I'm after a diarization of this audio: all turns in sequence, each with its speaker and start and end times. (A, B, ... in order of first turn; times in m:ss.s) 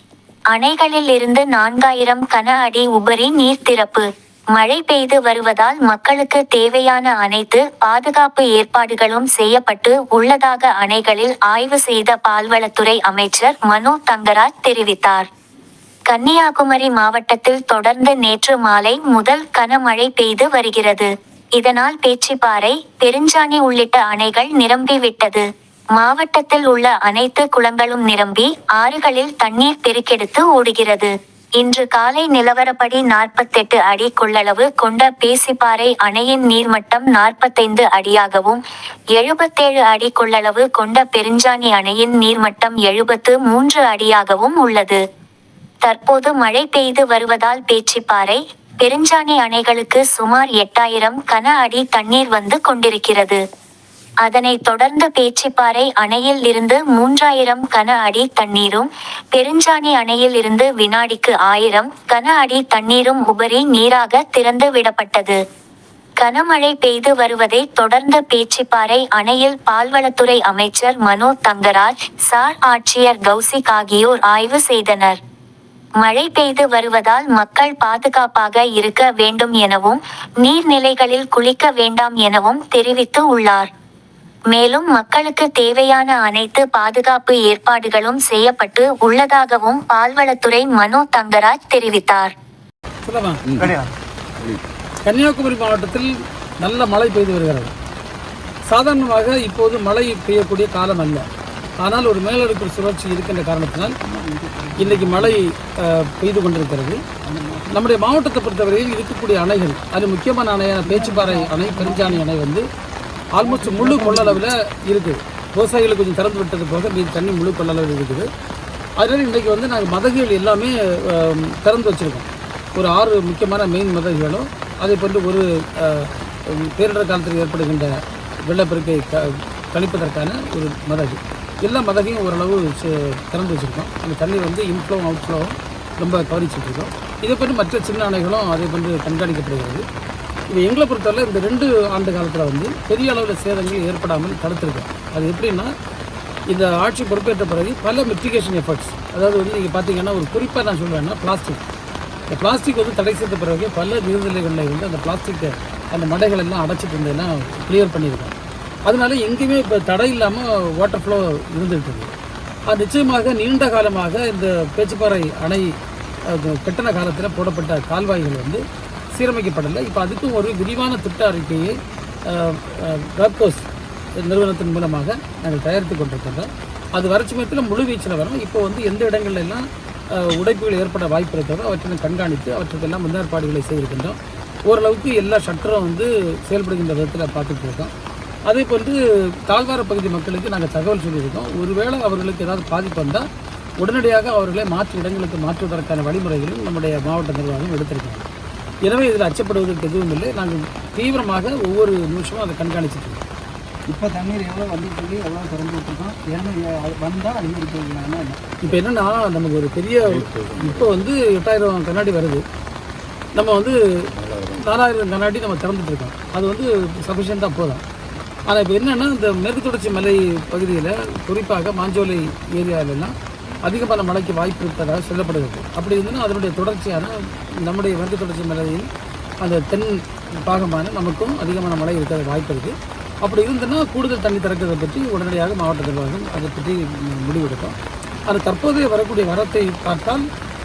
0:00.5-0:04.1 A
0:04.6-0:15.3 A
0:16.1-0:25.4 A
0:26.0-0:38.6 A
0:39.2-0:45.0 A
0:45.8-0:53.4 A
0:54.2-1:05.4 A
1:06.2-1:15.2 A
1:16.0-1:23.7 A
1:24.5-1:32.3 A
1:33.0-1:33.7 B
1:35.1-1:36.1 B
1:36.6-1:37.7 B
1:38.7-1:41.3 B
1:41.8-1:44.0 B
1:44.0-1:45.4 C
1:44.8-1:47.0 B
1:47.3-1:47.7 C
1:47.7-1:52.7 B
1:50.8-1:52.2 C
1:53.4-1:58.3 B
1:53.4-1:54.4 C
1:59.0-2:07.9 B
2:08.4-2:19.8 B
2:20.5-2:25.7 B
2:26.5-2:31.6 B
2:32.3-2:38.3 B
2:38.9-2:42.1 B
2:42.7-2:45.7 B
2:46.3-2:53.7 B
2:54.2-3:07.9 B
3:08.5-3:13.3 B
3:13.8-3:18.3 B
3:18.9-3:23.2 B
3:23.9-3:28.6 C
3:28.6-3:32.4 B
3:33.4-3:33.8 B
3:34.5-3:37.8 B
3:38.5-3:43.2 B
3:43.7-3:48.9 B
3:49.4-3:57.8 B
3:58.3-4:00.3 B